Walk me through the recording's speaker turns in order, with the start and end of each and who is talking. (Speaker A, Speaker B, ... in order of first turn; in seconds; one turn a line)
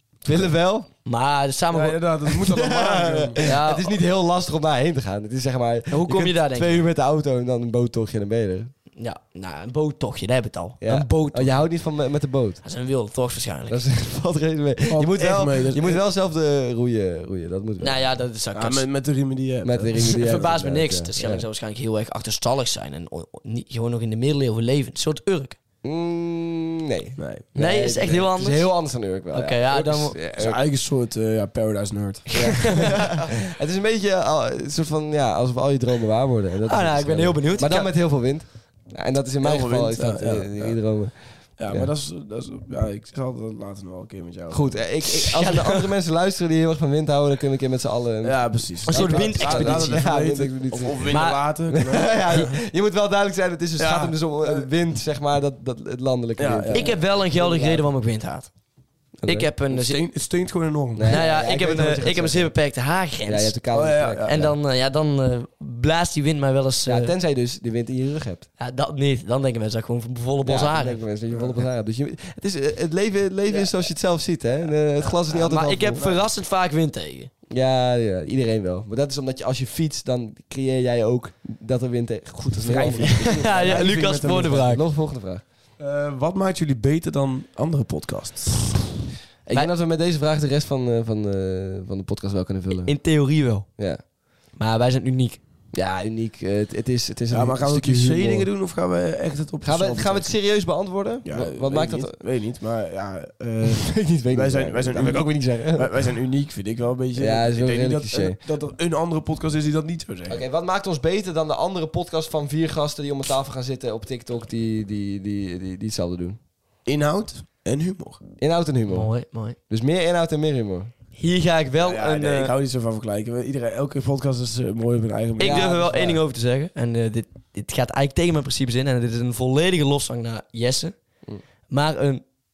Speaker A: 0.2-0.9
Speaker B: 1.0-2.3
Speaker C: 1.7-3.4
Speaker A: 2.5-8.7
Speaker B: 3.4-3.9
Speaker B: 5.9-6.8
Speaker B: 9.0-11.7
Speaker A: 10.8-12.6
Speaker B: 12.6-13.8
Speaker A: 13.7-18.0
Speaker C: 14.9-16.0
Speaker B: 17.8-18.9
Speaker C: 18.5-20.3
Speaker A: 19.6-21.4
Speaker B: 20.1-25.6
Speaker A: 25.8-30.6
Speaker C: 27.2-27.4
Speaker B: 27.6-30.2
Speaker C: 30.3-32.9
Speaker A: 32.3-41.9
Speaker B: 32.4-33.0
Speaker B: 36.6-38.0
Speaker C: 39.4-44.8
Speaker A: 44.5-57.9
Speaker B: 45.0-45.9
Speaker C: 48.2-52.5
Speaker B: 48.9-50.1
Speaker B: 51.1-51.4
Speaker C: 53.8-54.7
Speaker C: 56.4-57.0
Speaker B: 56.7-58.5
Speaker A: 59.2-59.5
Speaker B: 59.2-60.0
Speaker C: 59.7-61.2
Speaker A: 60.9-62.5
Speaker B: 61.1-63.6
Speaker A: 63.2-64.5
Speaker C: 63.7-64.3
Speaker B: 64.2-67.1
Speaker A: 66.8-68.5
Speaker B: 68.6-71.0
Speaker A: 70.4-76.1
Speaker C: 71.3-71.6
Speaker B: 75.3-77.3
Speaker C: 76.0-76.2
Speaker A: 77.5-83.6
Speaker C: 82.6-84.7
Speaker B: 82.8-84.8
Speaker A: 84.6-85.4
Speaker C: 85.8-88.8
Speaker A: 89.5-92.9
Speaker B: 92.8-93.7
Speaker B: 94.6-95.4
Speaker A: 95.7-98.5
Speaker C: 97.3-100.4
Speaker A: 99.6-102.2
Speaker C: 101.2-110.4
Speaker A: 103.6-105.9
Speaker A: 107.2-108.4
Speaker A: 110.3-116.4
Speaker C: 116.8-118.2
Speaker A: 118.4-119.1
Speaker B: 118.9-119.6
Speaker A: 119.7-120.9
Speaker B: 121.1-122.5
Speaker C: 121.8-126.2
Speaker B: 125.4-130.9
Speaker A: 125.4-125.8
Speaker B: 131.7-132.2